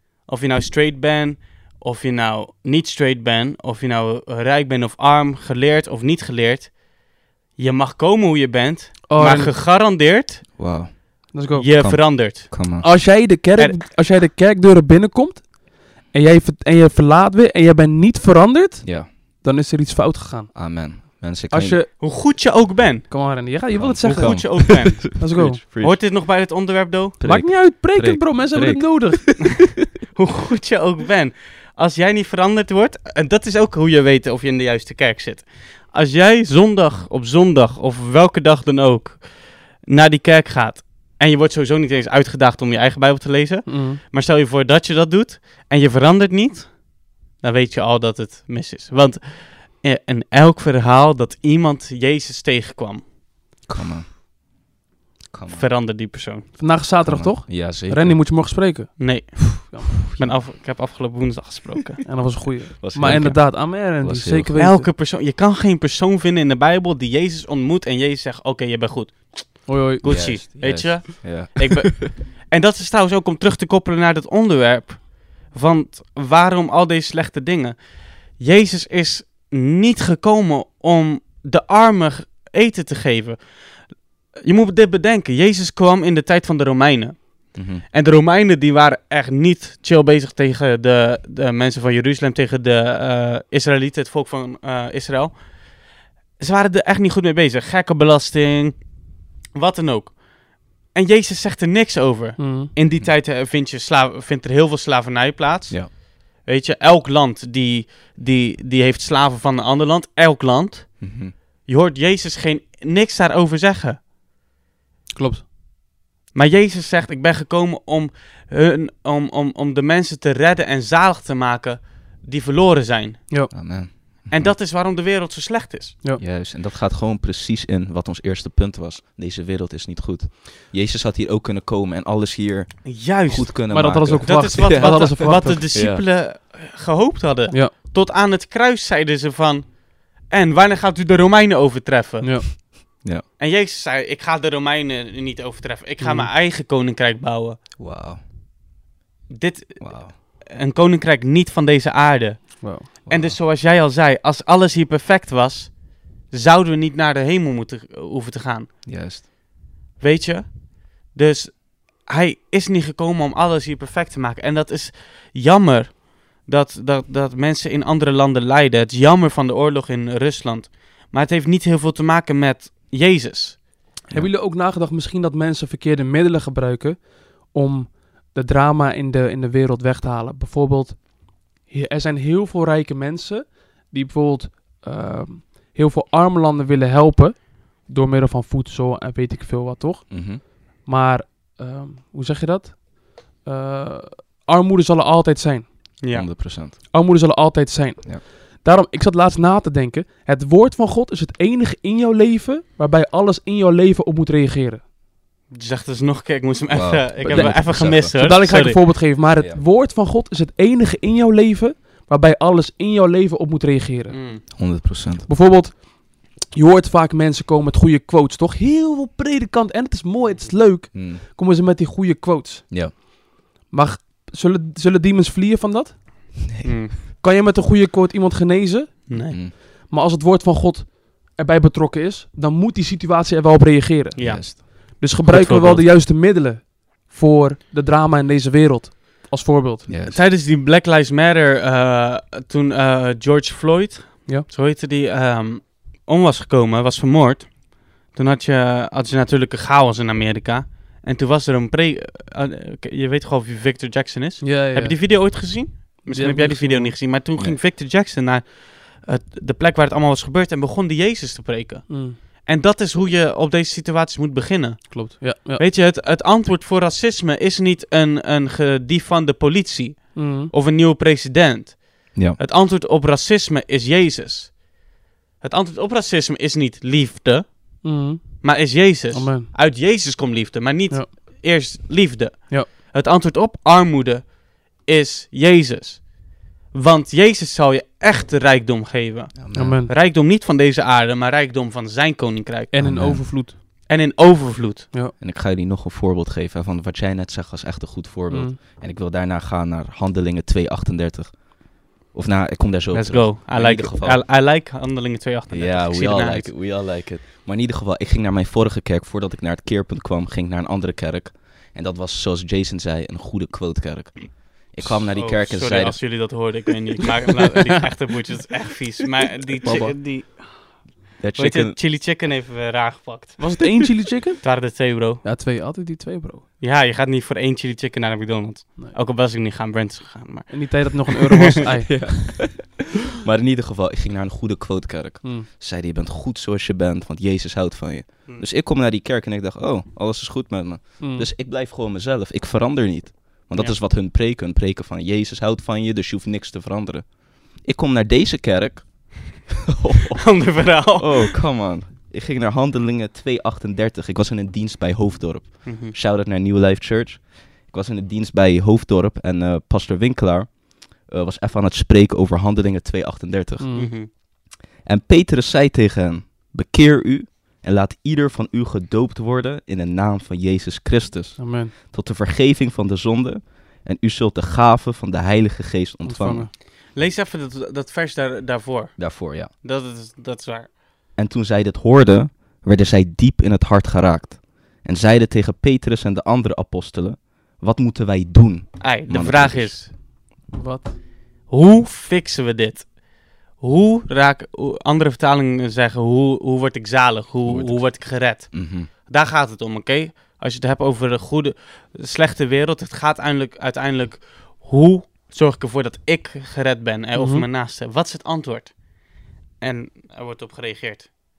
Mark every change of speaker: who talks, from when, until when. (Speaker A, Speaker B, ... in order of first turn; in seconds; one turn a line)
Speaker A: 0.2-10.5
Speaker B: 9.1-9.5
Speaker C: 10.6-12.8
Speaker B: 11.3-11.7
Speaker A: 11.5-12.5
Speaker B: 12.8-21.9
Speaker C: 18.8-19.1
Speaker C: 20.5-21.8
Speaker A: 22.0-23.4
Speaker B: 23.1-25.6
Speaker C: 23.7-26.0
Speaker A: 24.0-27.2
Speaker C: 27.2-29.6
Speaker B: 27.2-29.7
Speaker A: 30.1-53.0
Speaker B: 43.6-44.0
Speaker C: 53.7-54.1
Speaker C: 55.3-55.7
Speaker A: 55.5-56.5
Speaker B: 56.6-59.9
Speaker C: 57.0-58.2
Speaker A: 59.0-62.1
Speaker B: 62.0-64.9
Speaker C: 62.8-64.6
Speaker A: 64.6-99.0
Speaker B: 69.7-70.4
Speaker C: 70.0-72.1
Speaker C: 87.5-87.8
Speaker A: 99.5-114.0
Speaker B: 102.4-102.7
Speaker C: 111.0-111.3
Speaker B: 115.1-115.4
Speaker A: 116.3-123.6
Speaker C: 123.5-124.5
Speaker A: 124.3-126.0
Speaker C: 126.2-136.0
Speaker A: 132.8-142.8
Speaker B: 133.7-135.6
Speaker B: 142.2-142.5
Speaker A: 143.4-147.6
Speaker B: 146.0-146.3
Speaker C: 147.8-148.2
Speaker A: 149.3-158.7
Speaker C: 149.8-150.2
Speaker B: 152.6-152.9
Speaker C: 153.1-153.4
Speaker C: 158.8-159.3
Speaker A: 160.0-173.6
Speaker B: 174.1-196.0
Speaker C: 190.1-190.4
Speaker A: 196.0-196.3
Speaker C: 196.1-196.8
Speaker B: 196.9-204.8
Speaker A: 205.5-209.0
Speaker C: 206.7-208.3
Speaker B: 207.3-223.1
Speaker C: 209.4-209.6
Speaker A: 214.1-214.4
Speaker C: 214.5-215.3
Speaker C: 220.9-221.2
Speaker C: 222.7-222.9
Speaker B: 223.7-239.9
Speaker A: 226.6-227.0
Speaker A: 229.1-229.4
Speaker C: 229.1-229.5
Speaker A: 234.1-235.9
Speaker C: 234.2-234.6
Speaker C: 239.9-240.2
Speaker A: 240.1-274.8
Speaker B: 254.4-255.5
Speaker B: 256.1-257.0
Speaker C: 257.4-257.6
Speaker B: 261.9-262.2
Speaker B: 264.9-265.6
Speaker B: 270.1-270.5
Speaker A: 275.4-292.7
Speaker B: 277.8-279.5
Speaker C: 289.4-289.9
Speaker B: 289.5-289.9
Speaker B: 292.7-293.6
Speaker C: 292.8-293.3
Speaker A: 293.9-294.9
Speaker C: 295.2-304.3
Speaker B: 298.3-298.6
Speaker A: 302.9-306.6
Speaker C: 305.5-316.6
Speaker A: 315.1-325.2
Speaker C: 319.6-320.0
Speaker C: 321.2-321.8
Speaker B: 323.4-326.4
Speaker A: 326.6-331.4
Speaker B: 330.5-332.4
Speaker C: 331.9-364.2
Speaker B: 341.0-341.3
Speaker A: 343.5-343.8
Speaker A: 350.2-351.4
Speaker A: 355.6-355.9
Speaker B: 363.6-363.9
Speaker A: 363.7-364.1
Speaker C: 364.8-376.5
Speaker B: 371.4-371.7
Speaker B: 376.0-376.5
Speaker A: 376.9-380.7
Speaker C: 379.0-379.5
Speaker C: 381.1-389.8
Speaker A: 388.8-389.9
Speaker B: 390.5-390.9
Speaker A: 391.5-411.1
Speaker C: 397.4-398.9
Speaker B: 407.1-407.4